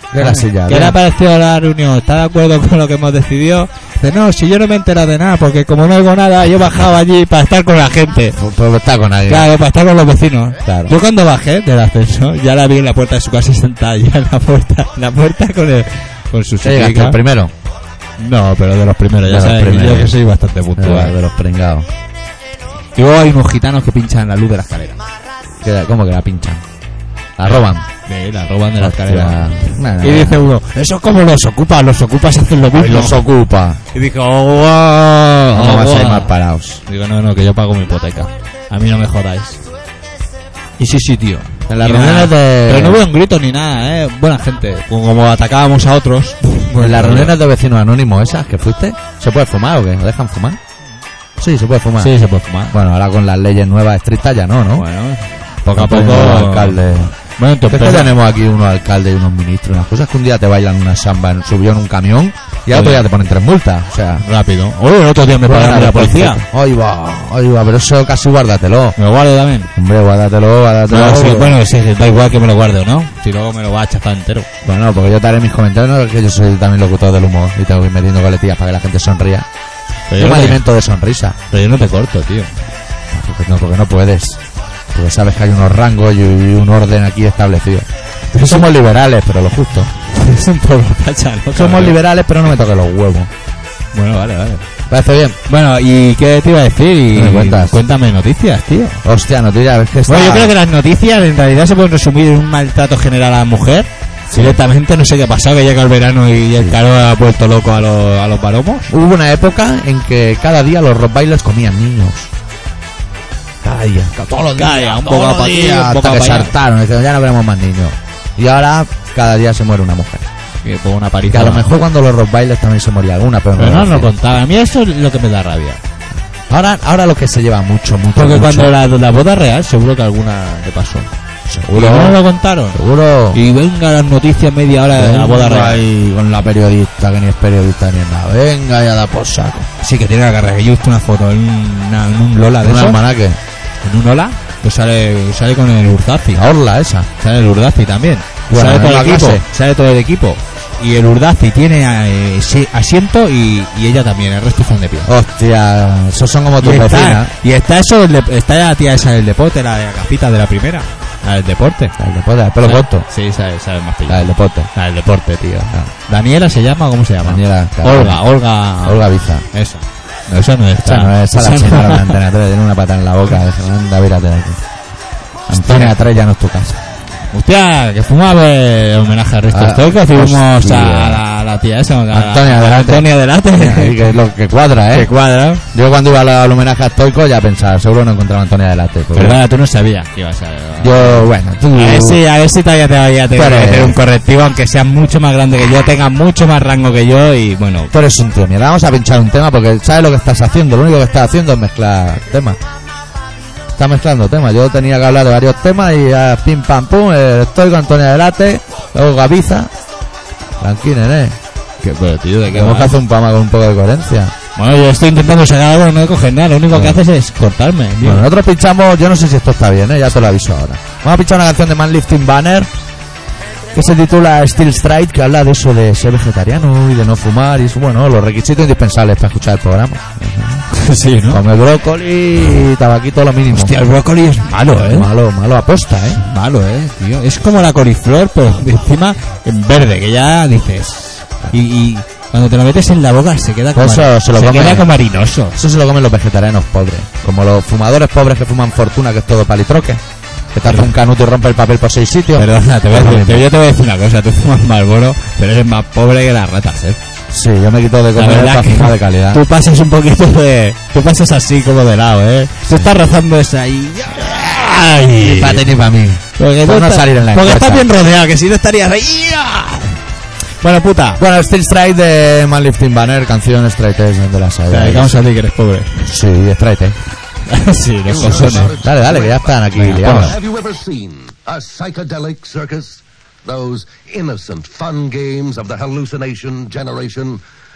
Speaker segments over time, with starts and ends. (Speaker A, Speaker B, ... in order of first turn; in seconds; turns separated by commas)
Speaker A: 0.1-1.0, Speaker B: 0.2-8.4, Speaker A: 8.4-9.5, Speaker B: 9.3-17.2, Speaker A: 10.7-11.0, Speaker A: 16.6-17.5, Speaker B: 18.2-21.2, Speaker A: 19.3-20.2, Speaker A: 20.8-21.9, Speaker B: 23.0-25.0, Speaker A: 25.6-26.6, Speaker A: 27.4-27.9, Speaker B: 27.4-33.2, Speaker A: 28.8-30.5, Speaker A: 32.7-33.8, Speaker B: 33.9-36.3, Speaker A: 35.5-36.8, Speaker B: 36.9-39.6, Speaker B: 40.8-47.4, Speaker A: 41.7-43.0, Speaker A: 46.8-50.6, Speaker A: 51.4-52.1, Speaker B: 52.0-52.8, Speaker A: 52.7-54.9, Speaker B: 54.8-56.8, Speaker A: 55.7-57.1, Speaker B: 57.4-58.2, Speaker A: 57.7-64.2, Speaker B: 62.7-63.1, Speaker B: 64.2-66.4, Speaker A: 65.4-69.0, Speaker B: 69.0-69.7, Speaker A: 69.8-71.6, Speaker B: 70.9-74.5, Speaker A: 74.6-79.5, Speaker B: 80.1-80.6, Speaker A: 80.2-81.4, Speaker B: 81.5-82.5, Speaker A: 83.1-84.4, Speaker A: 84.9-89.9, Speaker B: 88.3-88.7, Speaker B: 90.1-92.0, Speaker A: 91.5-93.3, Speaker B: 93.9-94.7, Speaker A: 94.9-95.4, Speaker B: 95.5-99.0, Speaker A: 97.1-97.8, Speaker A: 99.0-100.5, Speaker B: 100.1-108.9, Speaker A: 104.3-104.6, Speaker A: 108.9-112.3, Speaker A: 113.6-120.3, Speaker B: 114.5-116.5, Speaker B: 120.6-121.7, Speaker A: 121.3-124.1, Speaker B: 123.6-125.8, Speaker A: 126.5-128.7, Speaker B: 128.2-131.1, Speaker A: 131.5-132.2, Speaker B: 131.7-132.8, Speaker A: 132.7-133.4, Speaker B: 133.3-135.9, Speaker A: 134.9-139.7, Speaker B: 139.8-143.0, Speaker A: 142.6-143.4, Speaker B: 143.8-146.4, Speaker A: 146.3-147.1, Speaker B: 147.2-155.1, Speaker A: 148.5-149.4, Speaker A: 155.1-157.3, Speaker B: 156.6-162.0, Speaker A: 162.0-163.1, Speaker B: 162.6-172.2, Speaker A: 164.1-164.7, Speaker A: 167.2-168.2, Speaker A: 168.8-169.4, Speaker A: 170.8-174.6, Speaker A: 175.5-176.8, Speaker B: 175.5-176.0, Speaker B: 177.3-184.1, Speaker A: 179.5-181.2, Speaker A: 182.1-185.1, Speaker B: 184.9-185.6, Speaker A: 185.7-189.4, Speaker B: 189.2-197.9, Speaker A: 190.8-192.2, Speaker A: 193.3-194.0, Speaker A: 197.9-202.6, Speaker A: 203.7-209.7, Speaker A: 210.6-211.4, Speaker B: 211.8-212.9, Speaker A: 212.5-214.3, Speaker B: 214.6-218.3, Speaker A: 216.7-217.0, Speaker A: 218.0-222.7, Speaker A: 223.7-230.7, Speaker B: 230.7-231.4, Speaker A: 231.3-233.8, Speaker B: 233.5-235.1, Speaker A: 234.7-236.2, Speaker B: 236.2-245.6, Speaker A: 243.8-244.9, Speaker A: 245.6-250.0, Speaker A: 250.5-253.4, Speaker B: 250.7-250.9, Speaker B: 252.4-257.0, Speaker A: 257.3-259.4, Speaker B: 258.2-265.7, Speaker A: 265.2-267.9, Speaker B: 266.4-270.0, Speaker B: 270.6-271.2, Speaker A: 271.2-275.2, Speaker B: 274.7-276.1, Speaker A: 276.1-277.0, Speaker B: 277.5-278.8, Speaker C: 278.1-287.4, Speaker A: 278.2-280.4, Speaker B: 279.8-280.4